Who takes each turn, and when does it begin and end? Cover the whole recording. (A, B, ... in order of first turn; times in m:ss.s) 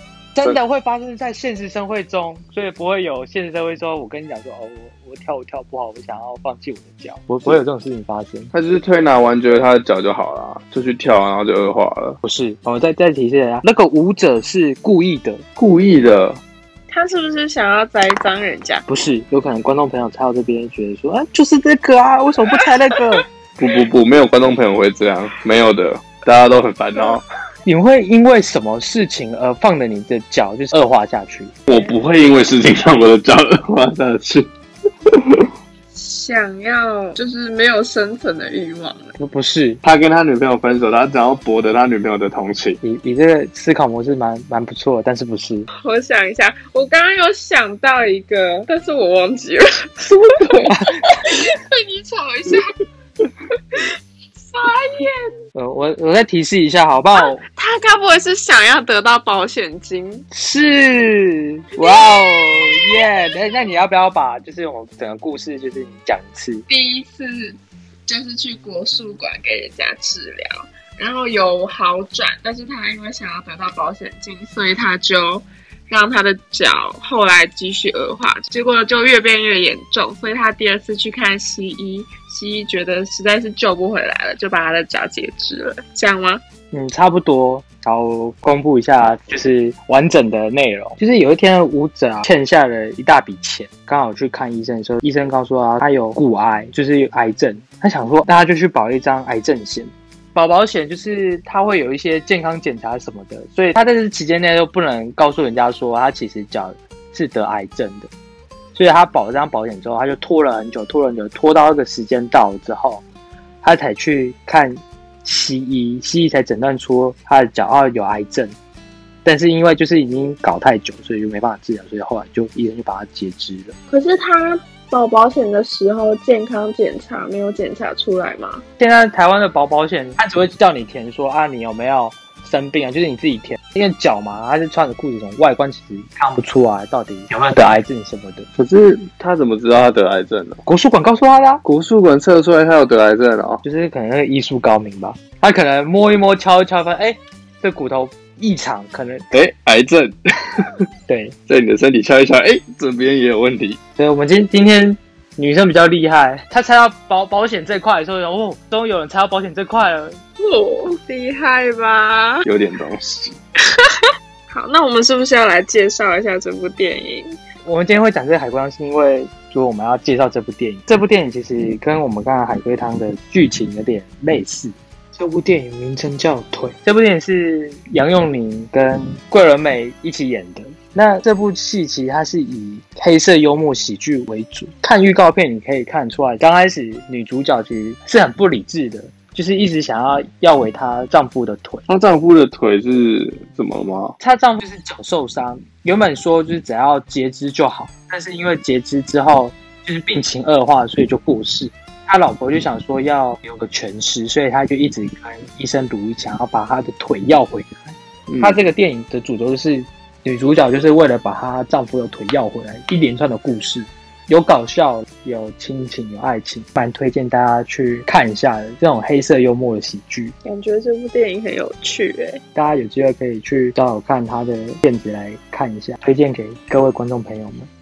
0:00.3-0:08.5 A
0:08.5-0:12.2 B
0:12.2-0:15.4 A
0:15.6-0:16.4 B
0:16.9-0:18.8 C
0:18.9-0:23.2 A
0:23.6-0:27.2 B
0:27.6-0:31.5 A
0:31.7-0:34.5 B
0:31.7-0:32.0 C
0:35.1-0:35.4 B
0:35.9-0:39.1 C
0:39.2-0:39.8 A
0:39.8-0:42.8 B
0:42.8-0:45.7 A
0:45.8-0:52.7 C
0:50.0-0:50.7 B
0:54.4-0:55.3 C
0:55.5-0:57.4 A
0:57.1-1:00.2 C
1:00.3-1:06.6 A
1:01.8-1:03.1 C
1:06.7-1:26.4 C
1:26.7-1:48.1 A
1:48.7-1:53.0 A
1:53.6-1:58.5 A
1:59.2-2:03.7 A
2:03.9-2:08.6 C
2:08.8-2:18.5 A
2:18.6-2:20.6 B
2:20.6-2:21.6 A
2:21.6-2:23.6 B
2:23.6-2:29.3 A
2:29.3-2:30.6 B
2:31.1-2:31.3 A
2:31.5-2:33.8 B
2:34.0-2:40.2 A
2:40.4-2:42.4 C
2:42.4-2:43.4 B
2:44.0-2:47.3 C
2:47.6-3:11.8 A
3:11.9-3:14.2 B
3:14.2-3:40.3 A
3:28.3-3:28.6 B
3:40.4-3:42.4 C
3:42.5-3:47.7 A